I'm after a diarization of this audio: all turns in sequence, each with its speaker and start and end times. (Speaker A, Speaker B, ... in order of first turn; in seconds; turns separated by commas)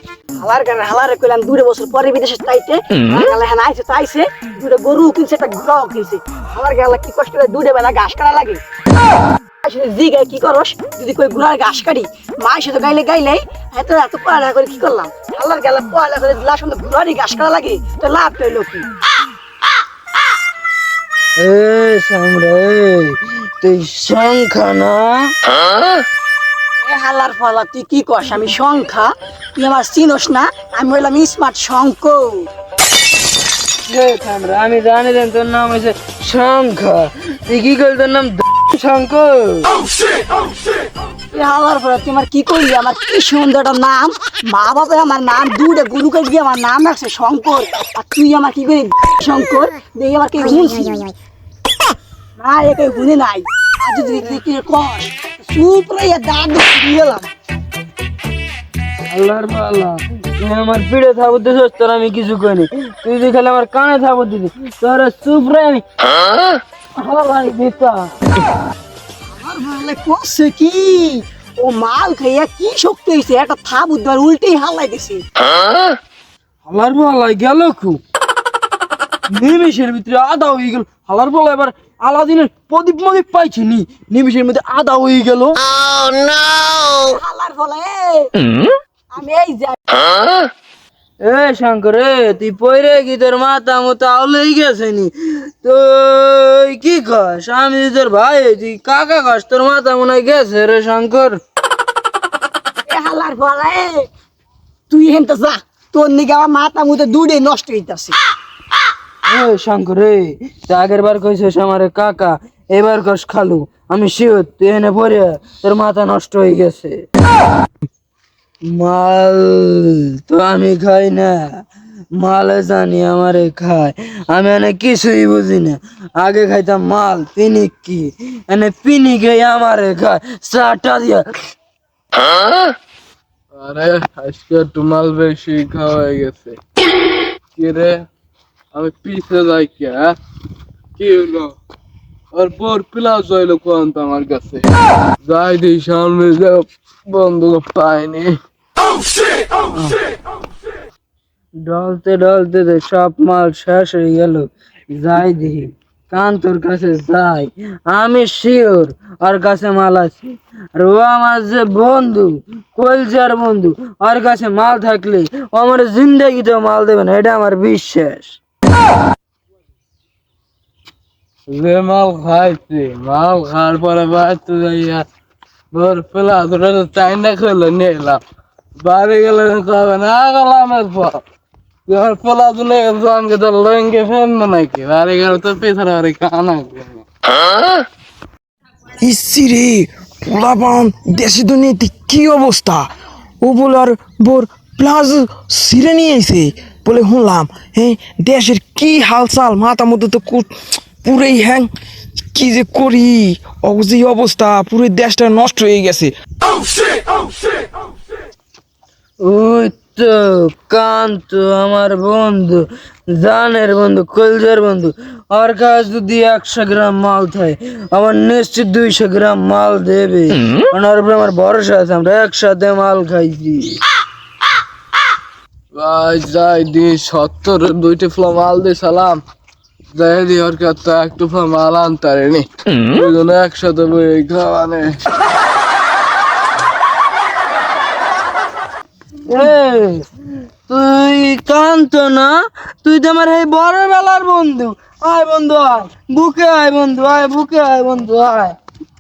Speaker A: 0.4-8.6, Speaker A: 9.6-18.9, Speaker B: 21.4-25.3, Speaker A: 26.8-32.5, Speaker B: 33.9-39.7, Speaker A: 41.3-51.1, Speaker A: 52.4-57.3, Speaker B: 59.1-65.8, Speaker B: 67.0-68.1, Speaker A: 69.3-75.2, Speaker B: 76.7-78.0, Speaker B: 79.3-85.7, Speaker A: 86.9-88.3, Speaker A: 89.1-90.3, Speaker B: 91.2-101.4, Speaker A: 102.9-104.1, Speaker A: 104.9-108.2, Speaker B: 109.3-117.0, Speaker B: 118.7-131.2, Speaker C: 133.5-136.6, Speaker C: 137.6-138.1, Speaker C: 138.7-140.1, Speaker C: 141.0-141.5, Speaker C: 142.3-144.7, Speaker C: 145.2-148.4, Speaker B: 151.6-160.2, Speaker B: 160.7-168.4, Speaker C: 171.5-175.0, Speaker C: 175.7-178.2, Speaker C: 178.8-181.2, Speaker C: 181.9-187.0, Speaker D: 189.0-192.9, Speaker D: 193.4-200.5, Speaker D: 201.0-201.7, Speaker D: 202.3-206.1, Speaker B: 209.2-223.8, Speaker C: 225.7-229.2, Speaker C: 229.9-235.0, Speaker B: 239.3-240.1, Speaker B: 240.7-248.6